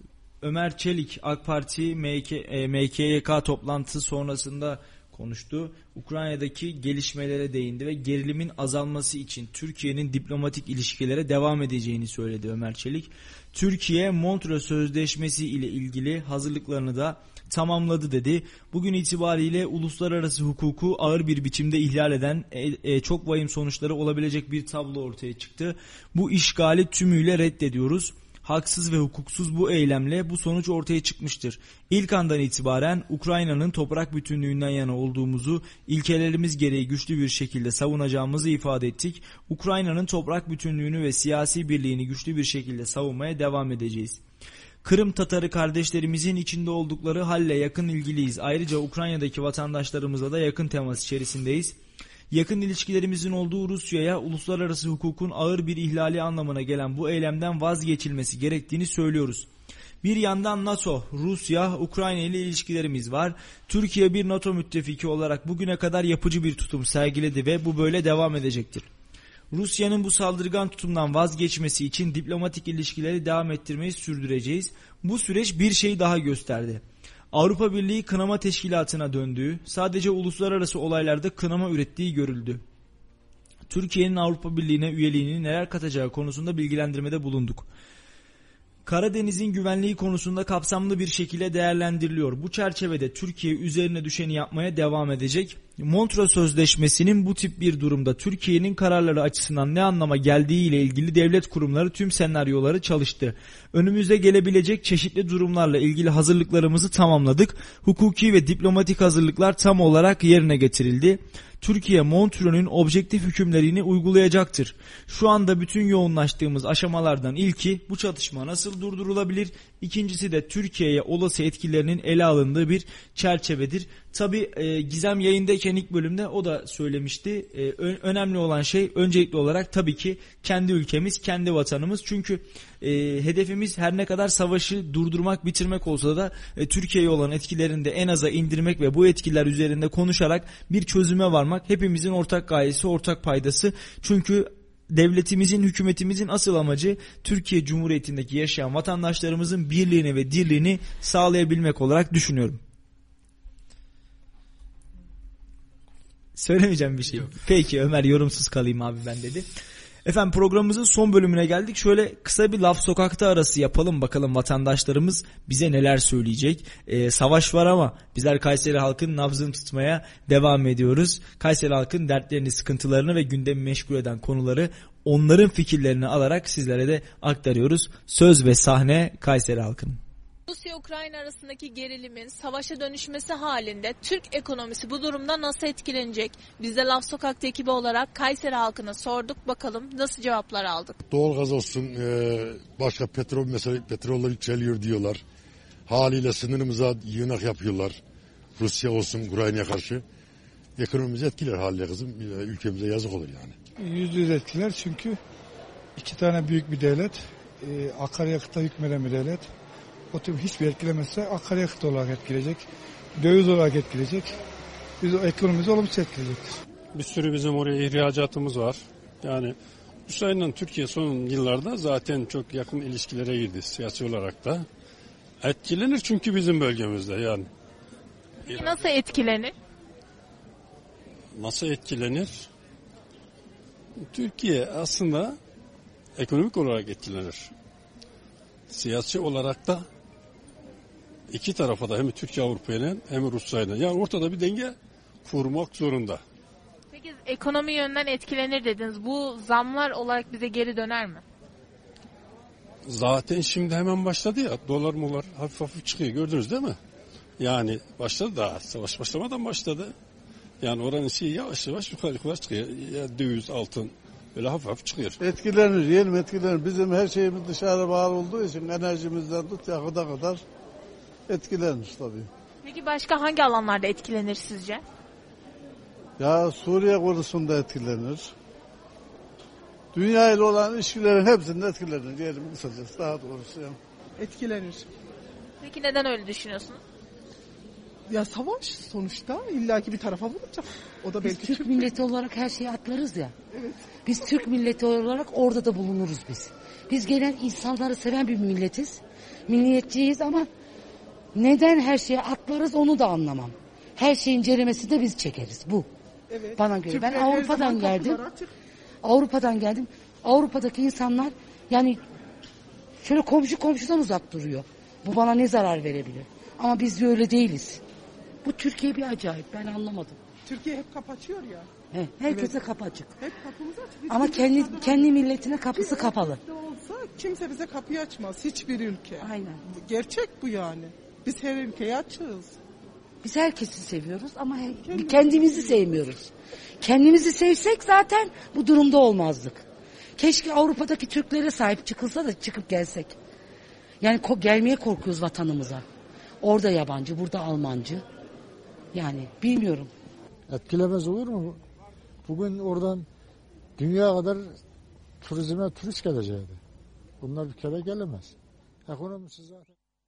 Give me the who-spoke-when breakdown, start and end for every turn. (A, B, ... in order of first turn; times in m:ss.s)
0:00.4-0:44.2 A
0:44.8-0:51.8 A
0:52.3-0:59.5 A
1:00.0-1:08.9 A
1:09.5-1:22.6 A
1:23.7-1:27.7 A
1:28.8-2:32.6 A
2:36.3-2:39.5 A
2:40.0-3:00.0 A
3:00.5-3:11.0 B
3:11.1-3:15.2 C
3:15.9-3:18.0 C
3:18.6-3:20.0 C
3:20.8-3:23.5 C
3:23.8-3:25.2 D
3:26.0-3:29.5 D
3:30.1-3:34.4 D
3:35.0-3:36.6 D
3:36.9-3:39.5 E
3:40.1-3:44.6 E
3:45.4-3:47.5 E
3:48.5-3:49.5 B
3:51.3-3:52.5 E
3:54.0-3:55.4 E
3:56.2-3:57.5 E
3:58.7-3:59.8 E
4:01.3-4:06.2 E
4:06.9-4:11.2 B
4:12.8-4:16.8 E
4:17.4-4:19.9 E
4:20.6-4:25.2 E
4:25.2-4:30.4 F
4:31.3-4:32.3 F
4:32.6-4:34.8 B
4:36.2-4:38.3 F
4:39.9-4:43.8 F
4:44.2-4:44.9 G
4:45.6-4:46.8 B
4:48.1-4:51.9 G
4:51.2-4:53.3 H
4:54.0-5:00.5 H
5:01.3-5:05.9 H
5:06.3-5:08.5 G
5:06.6-5:08.2 H
5:09.0-5:12.0 H
5:13.0-5:17.8 H
5:18.4-5:20.2 H
5:20.4-5:21.7 G
5:21.9-5:23.1 H
5:22.2-5:22.6 G
5:23.2-5:25.2 G
5:24.1-5:26.4 H
5:25.7-5:32.6 G
5:29.2-5:29.6 H
5:33.2-5:39.6 H
5:34.8-5:35.8 G
5:40.2-5:43.2 H
5:44.0-5:45.8 H
5:46.4-5:48.0 H
5:48.9-5:49.9 H
5:50.5-5:51.6 I
5:52.2-5:53.1 I
5:53.8-5:54.6 I
5:55.2-5:56.6 I
5:57.2-5:58.3 I
5:58.8-5:59.7 I